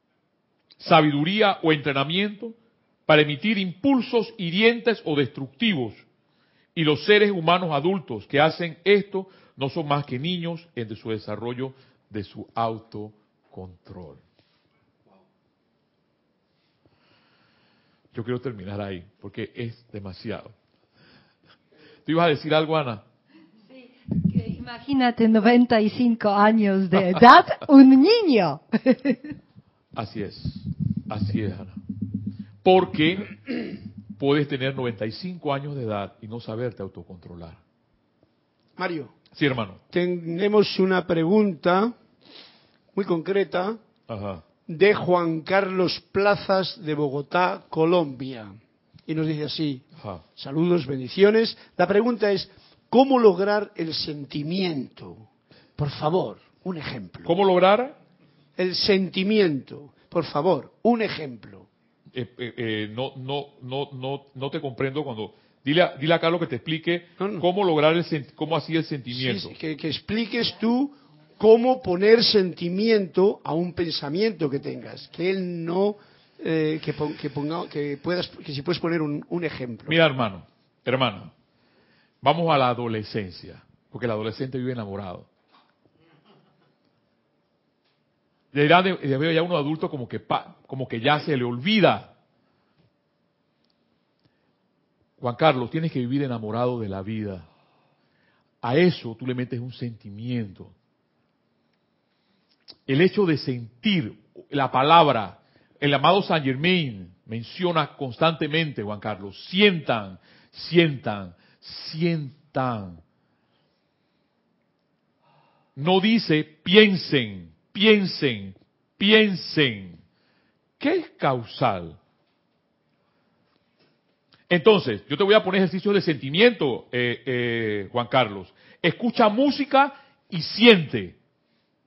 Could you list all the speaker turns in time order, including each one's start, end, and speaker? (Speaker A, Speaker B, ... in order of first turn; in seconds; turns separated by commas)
Speaker A: 0.8-2.6, Speaker A: 3.1-6.0, Speaker A: 6.8-14.2, Speaker A: 18.1-20.6, Speaker A: 22.1-23.1, Speaker B: 23.7-29.3, Speaker A: 29.9-31.8, Speaker A: 32.6-33.6, Speaker A: 34.2-37.6, Speaker C: 38.8-39.1, Speaker A: 39.3-39.8, Speaker C: 39.9-42.0, Speaker C: 42.9-43.8, Speaker A: 44.1-44.4, Speaker C: 44.7-57.3, Speaker A: 50.0-50.2, Speaker A: 57.2-58.0, Speaker C: 58.6-61.7, Speaker A: 62.1-69.6, Speaker C: 67.2-67.5, Speaker C: 69.1-80.0, Speaker A: 79.9-81.3, Speaker A: 82.2-85.3, Speaker A: 88.5-92.2, Speaker A: 95.2-97.5, Speaker A: 98.6-100.7, Speaker A: 102.9-113.0, Speaker A: 115.8-120.0, Speaker A: 120.8-122.0, Speaker A: 124.5-131.2